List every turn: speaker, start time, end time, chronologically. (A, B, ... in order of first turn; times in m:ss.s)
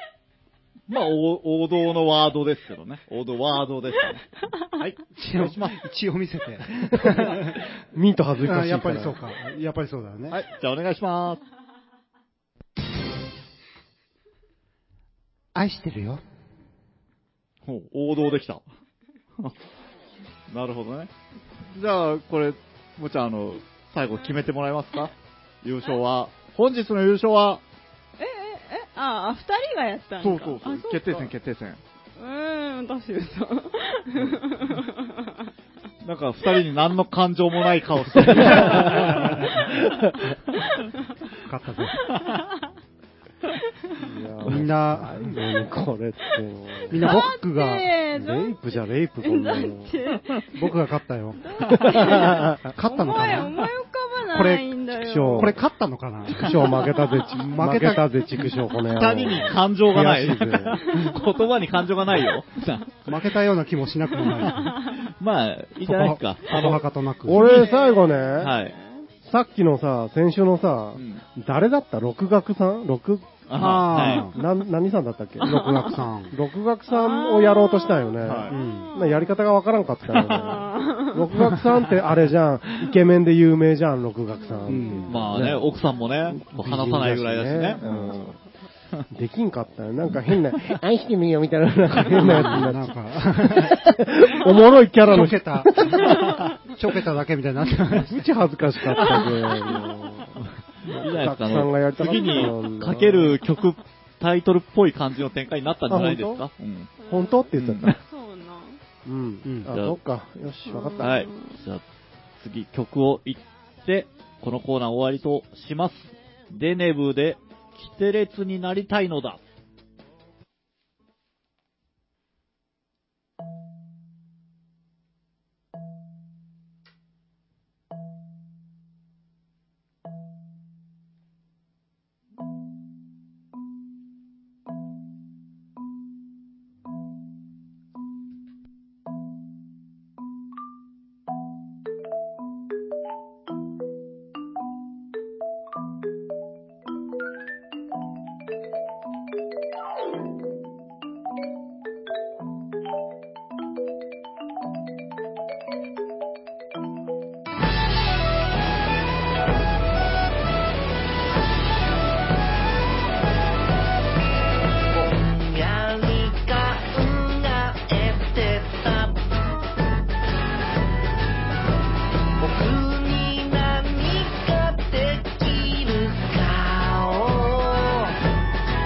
0:00.9-0:05.8 A
0:05.1-0:07.7 B
0:06.9-0:09.4 C
0:08.4-0:10.4 B
0:10.3-0:11.4 A
0:15.6-0:16.2 B
0:17.6-0:18.6 A
0:20.5-0:21.1 A
0:21.7-0:27.6 A
0:28.2-0:31.3 D
0:30.2-0:31.8 A
0:32.2-0:35.5 D
0:36.0-0:39.7 A
0:38.3-0:40.1 C
0:38.6-0:38.9 D
0:40.5-0:40.7 A
0:41.4-0:42.2 B
0:42.0-0:42.6 D
0:44.0-0:47.2 C
0:44.4-0:45.4 B
0:46.9-0:47.9 B
0:46.9-0:48.7 D
0:48.2-0:50.0 C
0:49.2-0:50.8 D
0:50.5-0:53.7 B
0:51.4-0:55.5 D
0:51.7-0:52.1 A
0:51.7-0:52.7 C
0:54.3-0:54.7 B
0:54.9-0:55.6 C
0:55.3-0:58.4 B
0:56.3-1:00.8 C
0:56.7-0:57.4 D
0:58.4-0:59.1 D
0:58.8-1:02.9 A
1:00.8-1:01.5 D
1:03.1-1:05.0 B
1:04.2-1:05.0 D
1:05.0-1:07.7 A
1:05.8-1:07.5 B
1:07.2-1:08.6 C
1:07.3-1:09.1 D
1:08.4-1:08.7 A
1:09.2-1:13.4 C
1:11.0-1:11.2 A
1:13.5-1:14.3 A
1:13.6-1:14.4 B
1:13.9-1:15.7 C
1:15.4-1:16.3 B
1:15.4-1:16.1 D
1:16.3-1:25.7 C
1:16.9-1:19.5 D
1:18.2-1:18.6 A
1:18.5-1:18.9 B
1:20.1-1:21.6 D
1:24.4-1:25.2 D
1:24.7-1:25.4 B
1:25.1-1:28.3 A
1:26.3-1:28.4 C
1:29.1-1:36.4 C
1:32.0-1:33.8 B
1:35.0-1:38.3 B
1:36.2-1:36.5 A
1:37.9-1:43.4 C
1:39.2-1:39.9 D
1:40.4-1:46.9 A
1:45.9-1:46.4 C
1:47.0-1:48.8 D
1:47.0-1:48.0 C
1:47.6-1:48.0 A
1:49.0-1:51.2 C
1:49.4-1:49.7 B
1:49.7-1:50.0 A
1:50.7-1:51.6 D
1:51.0-1:51.8 A
1:52.4-1:59.4 A
2:44.9-2:49.2 E
2:52.4-2:58.2 E